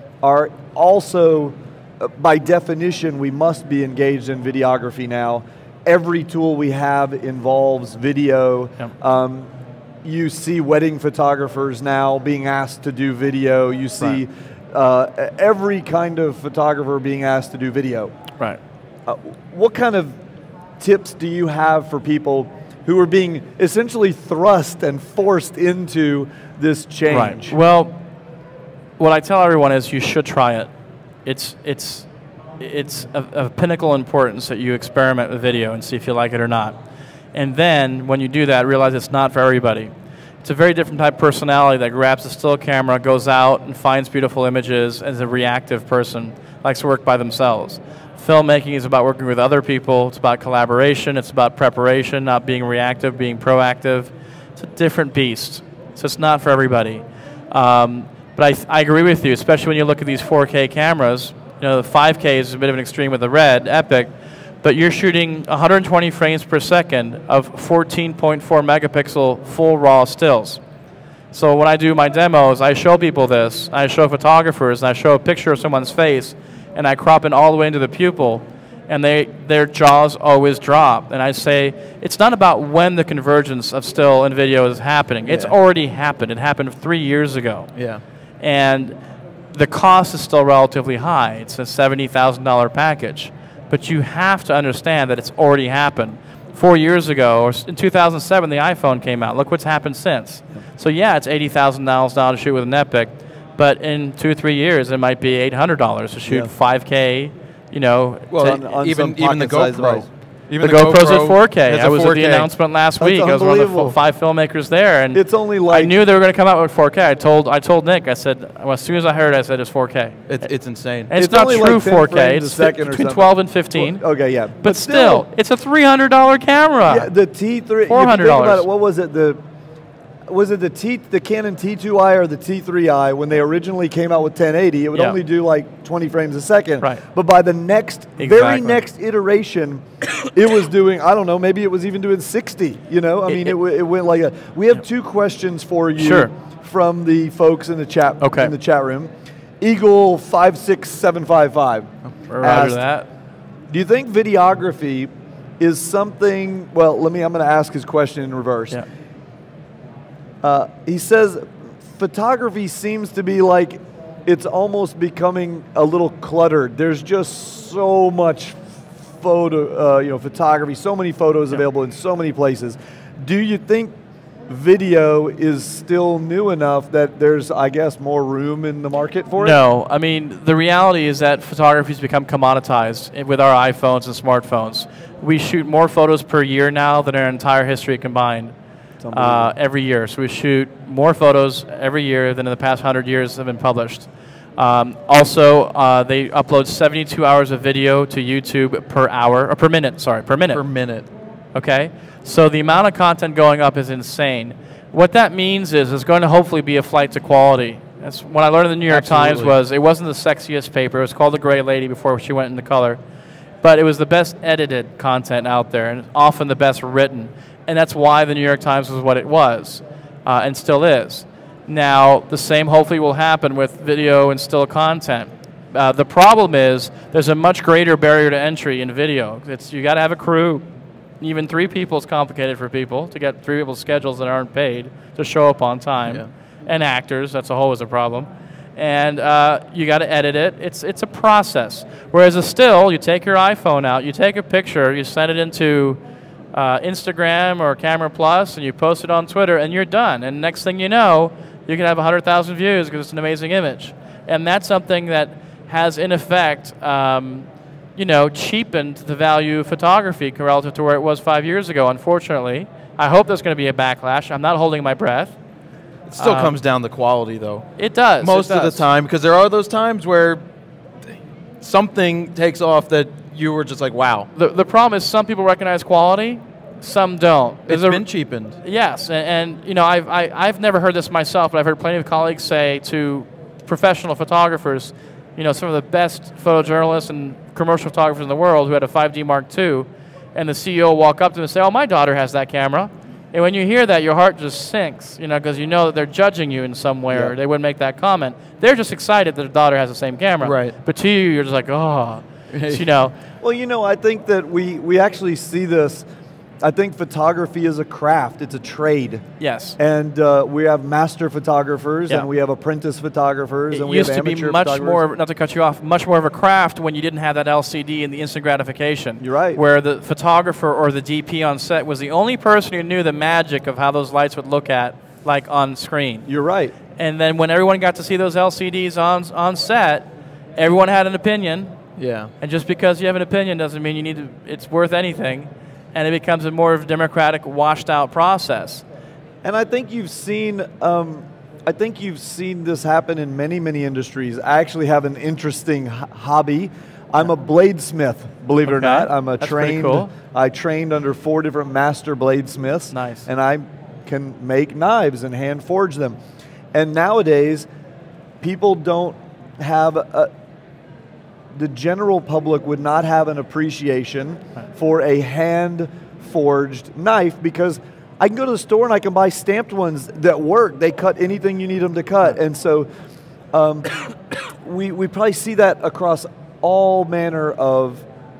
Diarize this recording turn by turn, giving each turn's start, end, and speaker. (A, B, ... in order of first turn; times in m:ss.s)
0:00.2-0:09.5 A
0:10.0-0:18.1 A
0:19.0-0:20.2 A
0:20.8-0:27.6 A
0:27.1-0:28.0 B
0:29.0-0:30.7 B
0:31.2-0:32.1 B
0:32.6-0:36.8 B
0:37.3-0:39.9 B
0:40.4-1:04.1 B
1:04.6-1:10.6 B
1:11.3-1:27.7 B
1:25.3-1:25.5 C
1:27.8-1:28.0 C
1:28.4-1:29.0 B
1:29.5-1:48.3 B
1:48.3-1:52.5 C
1:48.4-1:50.1 A
1:50.6-2:00.2 B
1:53.0-1:54.0 A
1:55.1-1:55.9 A
2:00.3-2:01.1 C
2:01.1-2:04.0 B
2:01.1-2:05.2 A
2:04.6-2:07.1 B
2:06.9-2:09.4 A
2:07.9-2:08.6 B
2:10.3-2:32.8 A
2:18.2-2:18.8 B
2:23.3-2:23.5 B
2:26.0-2:26.3 B
2:28.2-2:28.5 B
2:32.3-2:33.1 B
2:33.7-2:35.1 A
2:35.6-2:38.8 A
2:40.4-2:53.9 A
2:54.5-2:59.6 A
2:59.4-3:08.5 B
3:09.0-3:09.5 A
3:09.1-3:20.6 B
3:20.5-3:21.0 C
3:21.5-3:33.0 B
3:28.9-3:29.5 C
3:33.6-3:50.6 B
3:51.2-4:06.0 B
4:06.5-4:25.4 B
4:26.1-4:30.4 C
4:26.2-4:26.5 B
4:27.8-4:28.8 B
4:31.6-4:34.3 C
4:34.3-4:38.0 B
4:37.7-4:38.6 C
4:38.6-5:03.1 B
5:00.4-5:00.7 C
5:02.5-5:02.8 C
5:03.4-5:06.1 A
5:06.6-5:09.2 A
5:09.4-5:09.8 B
5:09.8-5:15.0 A
5:13.7-5:26.2 B
5:19.2-5:19.6 A
5:26.3-5:26.7 A
5:27.0-5:31.7 B
5:32.0-5:32.3 C
5:32.4-5:38.8 B
5:39.4-5:56.2 A
5:48.6-5:50.1 B
5:52.9-5:53.2 B
5:56.7-5:57.7 A
5:58.4-6:00.3 A
6:01.5-6:12.9 A
6:13.5-6:18.0 A